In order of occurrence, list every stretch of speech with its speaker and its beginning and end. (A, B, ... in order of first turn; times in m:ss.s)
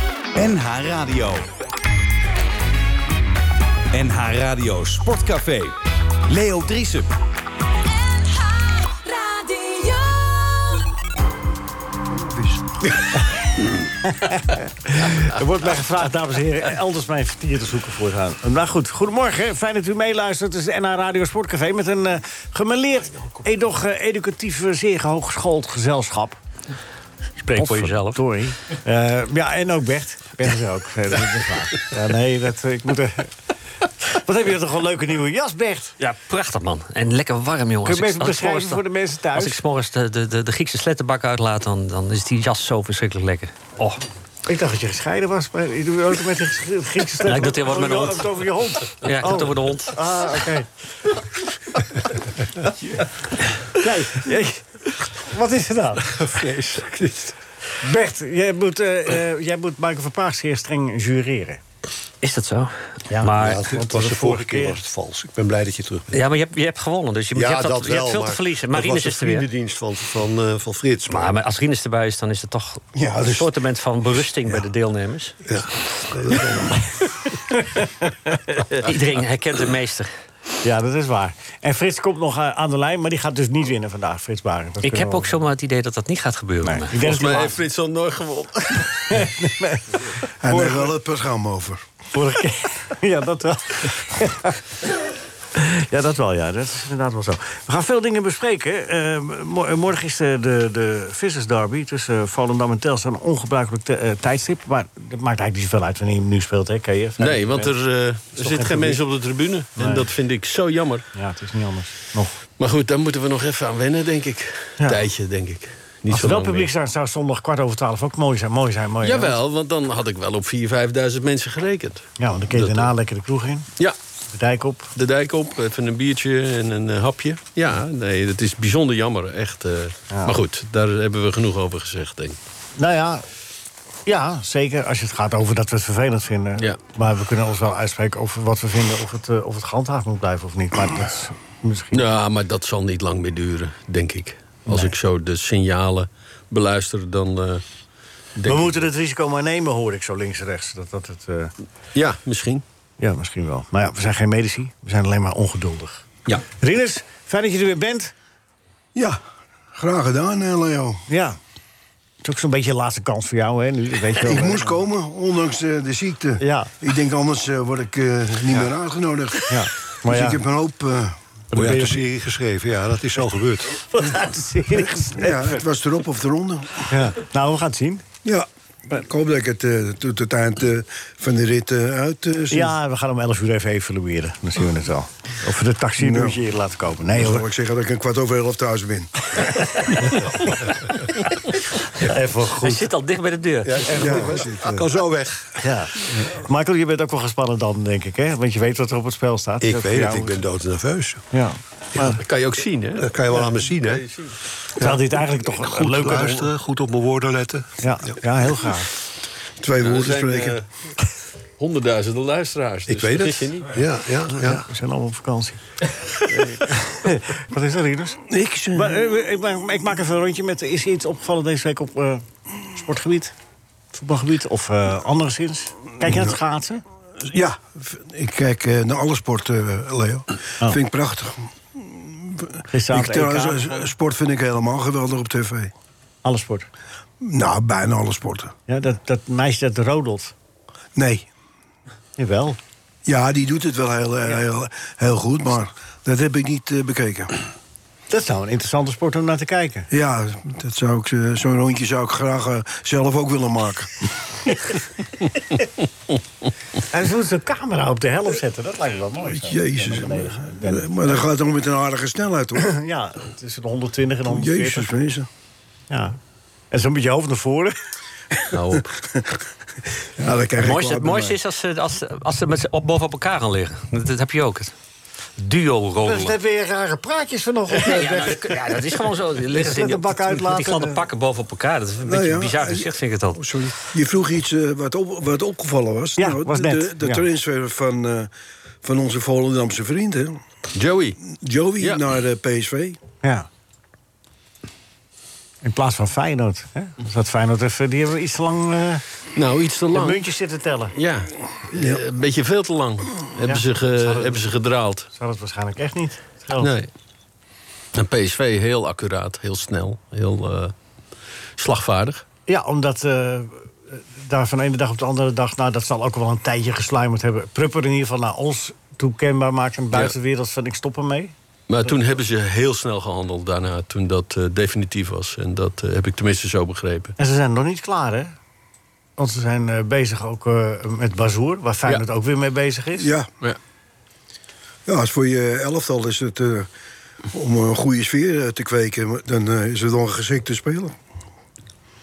0:00.3-0:01.4 A
0:03.9-0:05.8 A
0:06.3-0:07.1 A
0:07.8-0:10.8 B
0:12.2-0:12.7 C
0:14.0-0:26.4 D
0:27.4-0:28.2 E
0:27.6-0:33.3 D
0:34.1-0:35.9 D
0:36.0-0:44.0 E
0:37.8-0:39.6 D
0:44.4-0:50.7 D
0:47.2-0:48.4 E
0:49.0-0:49.9 E
0:53.7-0:56.0 D
0:56.1-0:57.3 F
0:57.8-1:01.6 D
1:02.2-1:03.7 E
1:03.1-1:04.8 D
1:03.2-1:06.2 F
1:06.1-1:09.4 E
1:07.3-1:11.4 F
1:11.1-1:15.4 E
1:13.0-1:13.5 C
1:15.4-1:16.8 F
1:17.5-1:18.6 D
1:18.7-1:20.1 E
1:20.6-1:25.4 D
1:24.8-1:26.9 E
1:26.6-1:27.6 D
1:26.9-1:29.2 G
1:29.1-1:30.9 D
1:30.4-1:31.8 C
1:32.1-1:34.6 D
1:35.6-1:47.7 D
1:47.2-1:51.0 G
1:48.4-1:49.0 D
1:49.8-1:50.1 D
1:51.1-1:52.4 D
1:52.6-1:56.7 G
1:56.1-1:59.4 D
1:59.0-2:02.9 G
2:02.2-2:03.7 D
2:04.3-2:04.9 D
2:05.0-2:12.4 G
2:10.1-2:10.4 D
2:12.8-2:13.2 D
2:14.0-2:22.0 D
2:21.9-2:27.6 G
2:24.7-2:24.9 D
2:28.4-2:28.8 G
2:28.4-2:31.5 D
2:31.9-2:32.6 G
2:33.0-2:38.1 D
2:39.8-2:41.0 C
2:41.1-2:41.4 D
2:42.2-2:44.7 D
2:44.2-2:51.2 C
2:46.4-2:46.7 D
2:49.5-2:50.4 D
2:51.5-2:52.0 D
2:51.5-2:53.8 F
2:53.8-2:55.5 D
2:54.9-2:56.8 C
2:56.9-2:58.0 D
2:58.2-3:02.7 C
3:02.5-3:07.4 D
3:06.0-3:06.4 C
3:07.1-3:09.5 C
3:12.0-3:12.9 D
3:12.6-3:13.9 E
3:13.6-3:15.6 F
3:13.9-3:14.7 C
3:15.6-3:20.4 D
3:19.6-3:21.2 F
3:21.3-3:22.2 D
3:22.0-3:23.1 G
3:23.0-3:24.0 F
3:23.8-3:24.4 G
3:24.8-3:28.2 F
3:24.8-3:26.5 D
3:27.8-3:28.9 D
3:29.6-3:30.6 C
3:29.8-3:30.7 G
3:31.6-3:33.7 G
3:32.9-3:34.6 F
3:34.4-3:35.6 D
3:36.3-3:38.2 D
3:38.3-3:39.0 C
3:38.7-3:43.3 D
3:43.9-3:46.8 D
3:46.0-3:46.3 C
3:47.2-3:55.7 C
3:52.7-3:53.9 D
3:56.2-3:56.7 D
3:57.2-3:58.5 C
3:58.7-4:00.3 D
4:01.0-4:01.2 C
4:02.2-4:02.6 D
4:03.0-4:07.3 C
4:08.1-4:09.9 D
4:09.9-4:14.5 C
4:16.9-4:21.2 D
4:19.3-4:22.6 C
4:22.6-4:24.9 D
4:24.3-4:25.3 C
4:25.9-4:26.2 D
4:26.7-4:27.7 D
4:28.5-4:28.9 G
4:29.0-4:29.4 C
4:30.2-4:31.4 C
4:30.6-4:34.7 E
4:35.4-4:36.4 E
4:36.0-4:38.8 D
4:37.8-4:43.4 E
4:39.5-4:41.0 D
4:42.0-4:48.3 C
4:46.2-4:47.2 D
4:48.8-4:50.4 C
4:50.7-4:51.2 G
4:51.4-4:53.0 C
4:55.6-4:59.0 D
4:59.3-5:00.3 G
4:59.9-5:00.9 D
5:00.9-5:05.1 G
5:01.7-5:02.0 C
5:03.4-5:04.4 D
5:05.1-5:06.7 D
5:06.6-5:06.9 G
5:07.9-5:10.7 G
5:11.6-5:12.2 G
5:12.5-5:21.3 D
5:21.7-5:27.1 G
5:27.2-5:28.3 D
5:29.2-5:33.1 D
5:33.0-5:33.3 C
5:34.9-5:36.7 C
5:37.3-5:40.9 C